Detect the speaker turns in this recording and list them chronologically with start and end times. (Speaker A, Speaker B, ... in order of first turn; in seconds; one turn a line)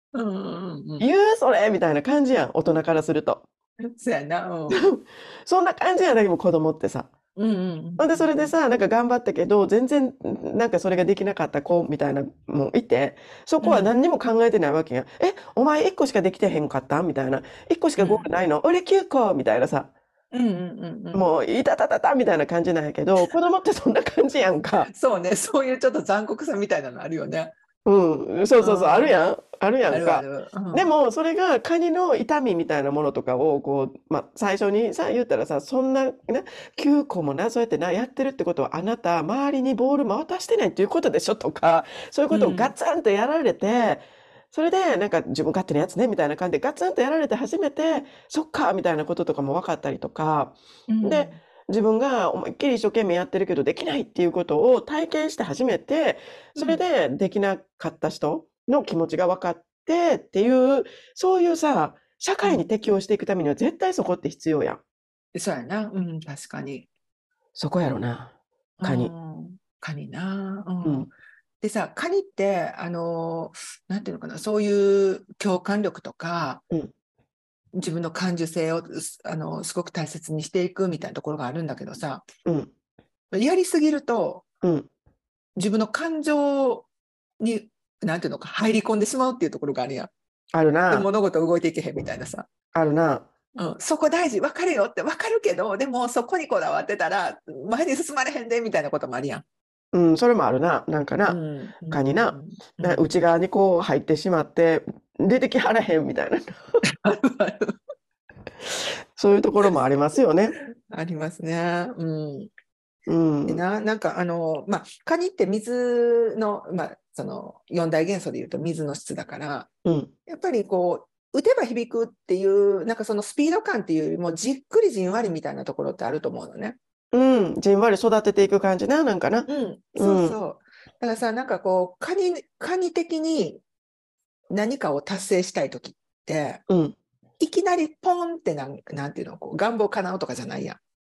Speaker A: 0.1-1.1
Speaker B: 1.0-3.4
Speaker A: 3.9-4.9
Speaker B: 4.7-7.1
Speaker A: 7.4-8.5
Speaker B: 8.0-19.9
Speaker A: 13.6-13.9
Speaker A: 18.0-18.3
Speaker A: 20.3-21.2
Speaker B: 21.1-24.9
Speaker A: 24.9-27.5
Speaker B: 27.9-64.8
Speaker A: 28.6-29.1
Speaker A: 29.9-30.9
Speaker A: 42.3-42.7
Speaker A: 50.9-51.4
Speaker A: 56.6-56.8
Speaker A: 65.3-66.9
Speaker B: 67.6-69.1
Speaker A: 68.8-71.1
Speaker B: 70.8-71.1
Speaker A: 71.6-76.6
Speaker A: 77.8-82.2
Speaker B: 82.5-82.7
Speaker A: 83.3-84.4
Speaker B: 84.6-84.9
Speaker A: 85.6-86.9
Speaker A: 87.4-90.1
Speaker B: 90.5-91.1
Speaker A: 90.9-92.5
Speaker B: 92.7-93.3
Speaker A: 93.6-99.4
Speaker B: 99.9-101.4
Speaker A: 101.3-103.1
Speaker B: 101.9-106.8
Speaker A: 106.8-107.8
Speaker B: 108.7-110.6
Speaker A: 110.9-112.5
Speaker B: 113.1-113.6
Speaker A: 113.5-119.7
Speaker B: 119.8-120.1
Speaker A: 120.3-126.8
Speaker B: 127.1-130.4
Speaker A: 129.5-133.6
Speaker A: 134.5-136.6
Speaker B: 136.7-137.0
Speaker A: 137.4-140.8